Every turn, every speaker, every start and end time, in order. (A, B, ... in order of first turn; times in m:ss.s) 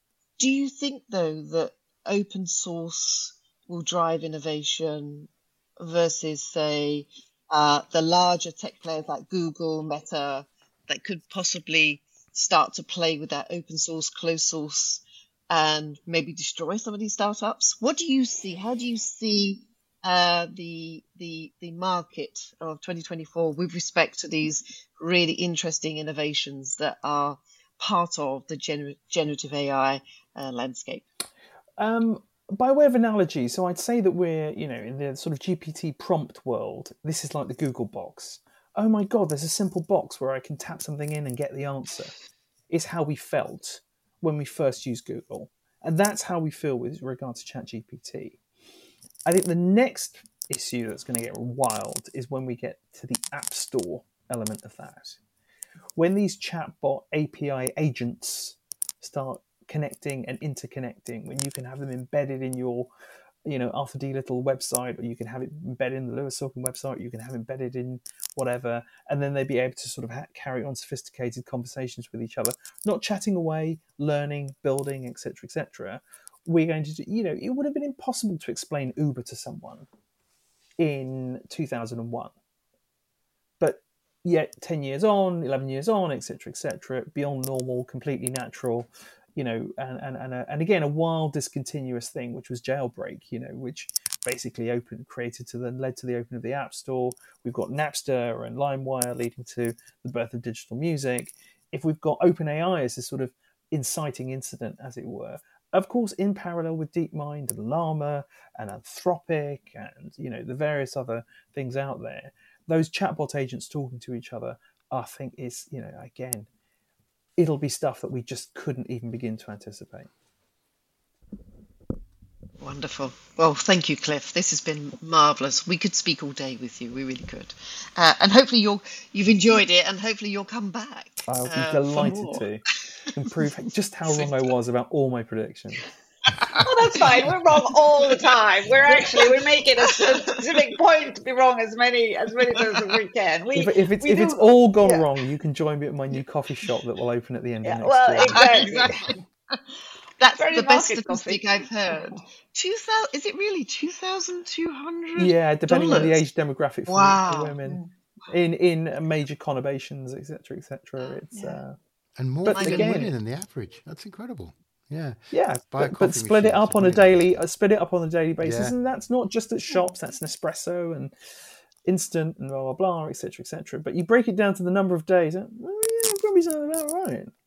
0:00.4-0:31.1 A
0:31.8-0:42.1 B
0:42.7-0:48.4 B
0:49.3-0:55.2 B
0:56.0-1:02.9 B
1:03.5-1:19.9 B
1:20.8-1:22.3 B
1:23.6-1:56.5 B
1:57.4-2:00.1 B
2:02.6-2:12.5 A
2:11.3-2:15.8 B
2:16.3-2:16.6 A
2:16.6-2:25.1 C
2:18.8-2:20.6 A
2:23.5-2:28.9 B
2:27.6-2:29.2 C
2:28.2-2:29.6 A
2:30.2-2:36.2 A
2:30.4-2:32.2 C
2:35.2-2:41.8 B
2:36.9-2:37.6 A
2:41.3-2:41.6 C
2:42.2-2:47.3 D
2:42.4-2:43.1 B
2:42.5-2:43.1 A
2:45.3-2:51.1 B
2:48.4-2:48.8 D
2:51.8-2:57.3 B